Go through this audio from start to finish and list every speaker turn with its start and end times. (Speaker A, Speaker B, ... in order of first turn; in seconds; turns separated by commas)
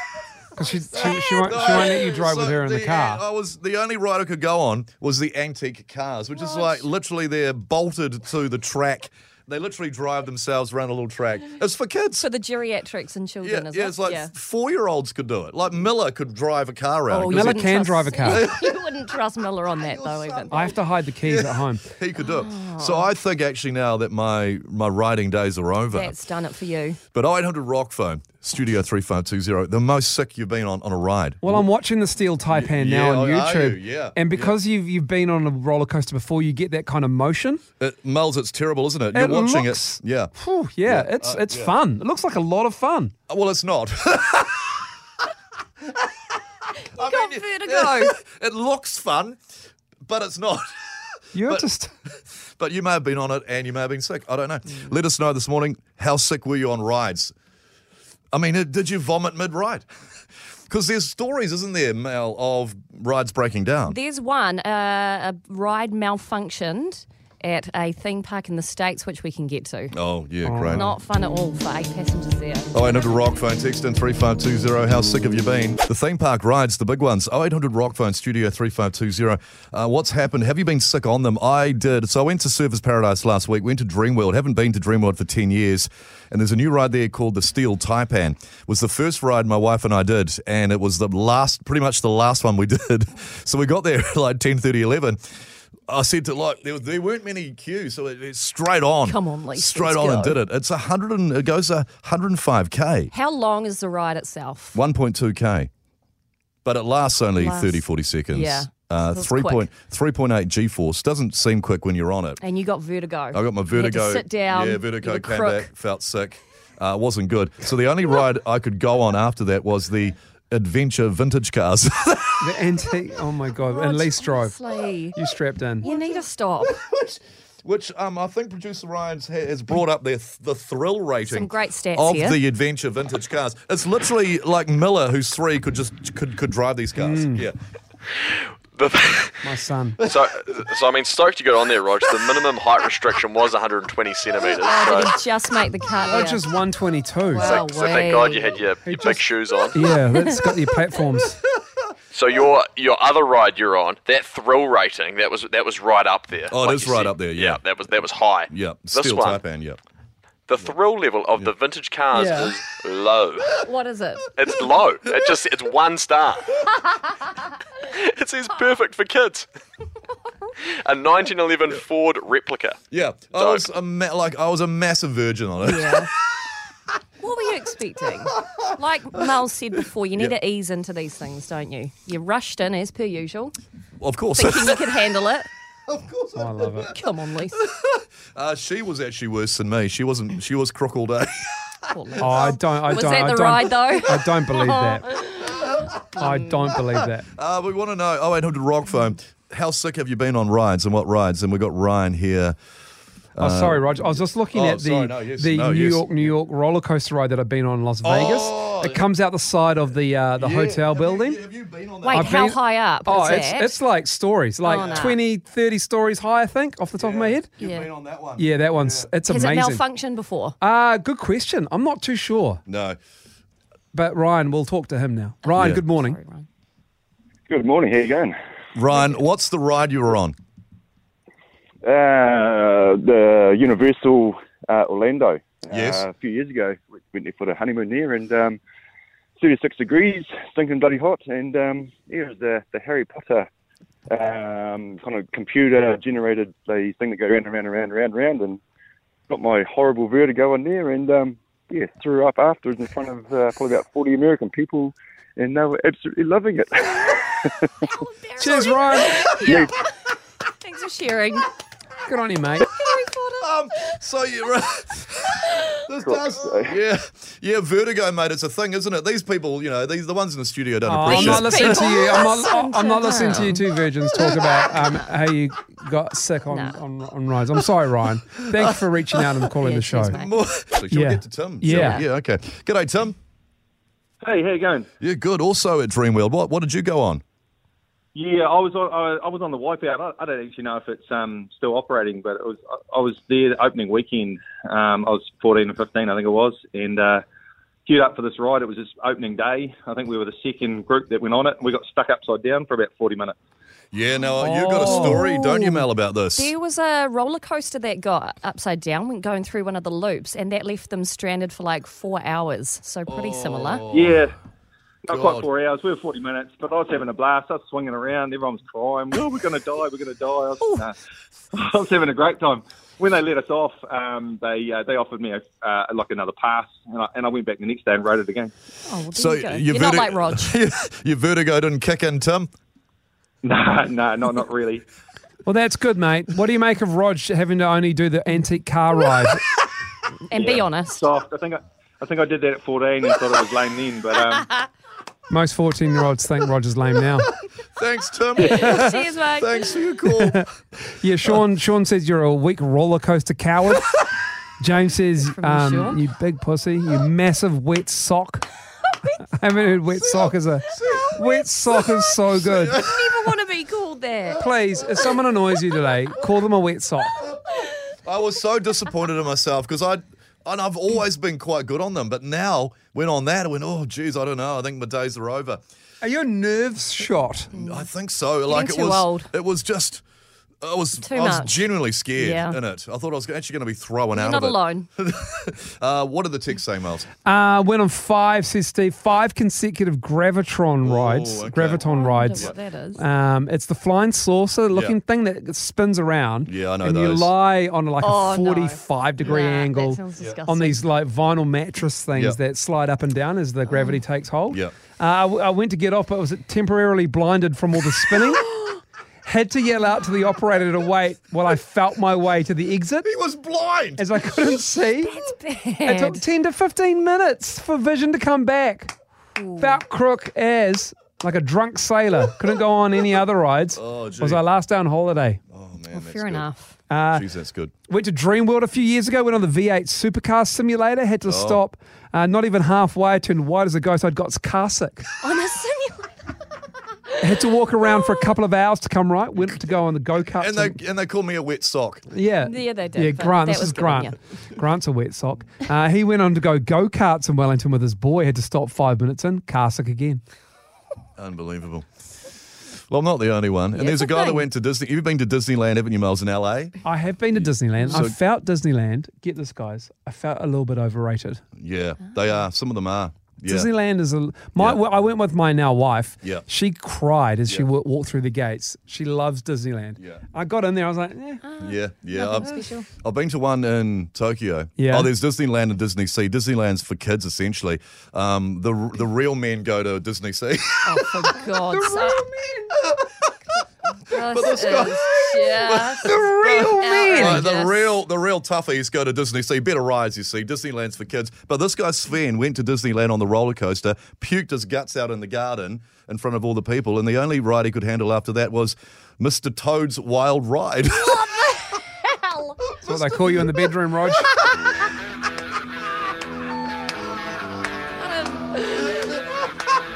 Speaker A: 0.5-3.2, Speaker B: 0.9-12.2, Speaker C: 6.3-6.8, Speaker C: 12.2-14.3, Speaker B: 13.4-18.8, Speaker C: 17.1-20.7, Speaker A: 17.3-18.4, Speaker B: 19.8-26.2, Speaker A: 20.5-21.8, Speaker C: 22.2-23.1, Speaker C: 25.9-27.0, Speaker B: 27.1-31.7, Speaker A: 31.4-37.6, Speaker B: 32.5-34.5, Speaker B: 37.8-40.3, Speaker A: 39.1-43.1, Speaker B: 40.8-41.7, Speaker B: 43.3-44.9, Speaker C: 46.9-48.1, Speaker B: 47.0-49.4, Speaker B: 50.0-51.7, Speaker A: 51.3-51.9, Speaker B: 52.6-57.3, Speaker B: 58.3-59.8, Speaker B: 60.7-64.0, Speaker C: 63.9-69.9, Speaker B: 69.9-70.9, Speaker A: 70.4-71.0, Speaker C: 70.7-72.7, Speaker B: 72.7-95.2, Speaker B: 95.9-103.1, Speaker C: 99.0-100.4, Speaker C: 103.1-104.8, Speaker B: 104.7-105.7, Speaker B: 106.7-112.4, Speaker C: 107.3-109.7, Speaker C: 112.4-115.7, Speaker B: 113.3-122.6, Speaker A: 122.4-124.6, Speaker C: 123.6-125.2, Speaker A: 125.1-125.9, Speaker C: 125.8-126.8, Speaker B: 125.8-137.6, Speaker C: 131.2-132.4, Speaker A: 137.0-137.5, Speaker D: 138.8-145.1, Speaker A: 139.4-140.0, Speaker C: 144.4-146.4, Speaker A: 146.0-147.6, Speaker C: 147.3-148.6, Speaker D: 147.3-149.7, Speaker A: 148.8-149.2, Speaker A: 149.7-151.4, Speaker D: 152.1-159.4, Speaker B: 156.5-157.6, Speaker B: 158.5-159.8, Speaker D: 160.5-163.6, Speaker C: 162.2-162.5, Speaker C: 163.6-164.3, Speaker D: 164.3-166.6, Speaker D: 167.8-169.5, Speaker D: 170.8-172.8, Speaker B: 172.9-176.5, Speaker D: 173.3-173.6, Speaker C: 175.6-176.1, Speaker C: 177.2-183.5, Speaker B: 178.3-179.2, Speaker B: 184.0-184.9, Speaker C: 184.3-185.5, Speaker B: 185.9-187.0, Speaker A: 186.3-186.9, Speaker C: 186.9-187.6, Speaker B: 187.6-192.5, Speaker C: 191.9-196.6, Speaker A: 192.2-195.0, Speaker A: 196.2-197.3, Speaker B: 196.7-202.5, Speaker B: 203.3-206.3, Speaker A: 203.4-211.4, Speaker B: 208.0-209.1, Speaker B: 210.3-212.5, Speaker C: 212.0-213.7, Speaker A: 212.1-217.5, Speaker C: 214.6-215.2, Speaker B: 214.7-215.2, Speaker B: 217.0-219.1, Speaker C: 217.6-217.9, Speaker A: 218.3-219.8, Speaker C: 219.2-220.5, Speaker A: 220.6-222.6, Speaker B: 222.7-223.0, Speaker A: 223.9-226.2, Speaker C: 225.4-226.5, Speaker B: 225.6-225.8, Speaker E: 227.5-228.3, Speaker B: 228.7-230.3, Speaker E: 231.8-238.6, Speaker B: 235.7-236.0, Speaker E: 239.4-243.5, Speaker E: 244.1-248.6, Speaker E: 249.3-257.7, Speaker C: 257.8-259.7, Speaker A: 258.4-259.2, Speaker E: 259.4-259.7, Speaker C: 260.6-261.5, Speaker A: 262.0-262.7, Speaker C: 262.6-264.0, Speaker B: 263.4-272.3, Speaker C: 265.4-265.7, Speaker E: 266.0-266.7, Speaker A: 270.9-280.2, Speaker C: 271.0-273.7, Speaker C: 274.2-275.1, Speaker C: 276.5-276.8, Speaker B: 278.4-279.5, Speaker C: 279.6-280.4, Speaker B: 280.0-283.1, Speaker A: 280.9-282.0, Speaker C: 281.7-282.0, Speaker F: 284.2-284.9, Speaker B: 285.0-287.2, Speaker F: 288.1-297.2, Speaker F: 297.9-303.4, Speaker B: 303.9-306.5, Speaker A: 304.4-305.4, Speaker C: 304.8-305.8, Speaker C: 306.4-313.9, Speaker B: 313.1-314.2, Speaker F: 313.9-314.3, Speaker F: 315.0-320.9, Speaker B: 315.1-315.5, Speaker C: 320.6-320.9, Speaker F: 321.5-328.5, Speaker C: 328.9-330.5, Speaker B: 329.1-332.5, Speaker F: 333.4-334.8, Speaker A: 335.4-339.4, Speaker C: 340.3-341.0, Speaker F: 340.3-344.5, Speaker A: 345.3-347.3, Speaker B: 347.8-350.4, Speaker C: 348.4-349.7, Speaker A: 348.4-348.9, Speaker A: 350.1-353.9, Speaker A: 354.6-358.5, Speaker C: 355.4-356.0, Speaker A: 359.3-362.8, Speaker B: 360.0-363.3, Speaker C: 362.8-364.4, Speaker A: 364.4-367.2, Speaker B: 364.4-365.1, Speaker B: 368.0-375.6, Speaker A: 376.0-377.5, Speaker C: 377.5-377.9, Speaker B: 377.5-380.0, Speaker C: 378.5-379.3, Speaker B: 380.6-387.1, Speaker C: 381.0-381.6, Speaker C: 382.1-382.6, Speaker C: 384.1-384.9, Speaker A: 387.2-408.4, Speaker B: 390.8-392.5, Speaker C: 391.8-393.0, Speaker B: 394.7-395.0, Speaker B: 396.4-397.3, Speaker C: 398.0-400.8, Speaker C: 403.7-404.0, Speaker A: 409.2-413.1, Speaker B: 413.0-414.0, Speaker A: 414.0-415.2, Speaker C: 415.0-416.2, Speaker A: 415.8-418.9, Speaker C: 419.3-419.8, Speaker A: 419.6-425.4, Speaker B: 423.7-424.4, Speaker B: 425.5-426.5, Speaker C: 425.9-426.8, Speaker A: 426.9-427.2, Speaker B: 427.1-427.7, Speaker A: 427.9-435.1, Speaker B: 431.3-431.6, Speaker C: 435.2-436.3, Speaker A: 437.2-440.8, Speaker B: 440.4-442.0, Speaker A: 442.1-450.2, Speaker C: 442.4-444.1, Speaker B: 451.2-451.9, Speaker B: 452.9-456.8, Speaker C: 453.8-454.4, Speaker A: 456.8-461.4, Speaker B: 457.3-458.1, Speaker B: 461.6-463.7, Speaker A: 463.4-471.4, Speaker B: 464.6-464.8, Speaker C: 471.4-472.9, Speaker B: 471.6-483.1, Speaker A: 474.8-475.1, Speaker C: 480.9-482.3, Speaker C: 484.0-487.9, Speaker B: 484.1-501.2, Speaker A: 486.4-486.7, Speaker C: 500.9-502.6, Speaker A: 502.8-504.3, Speaker C: 504.4-504.6, Speaker C: 508.0-509.2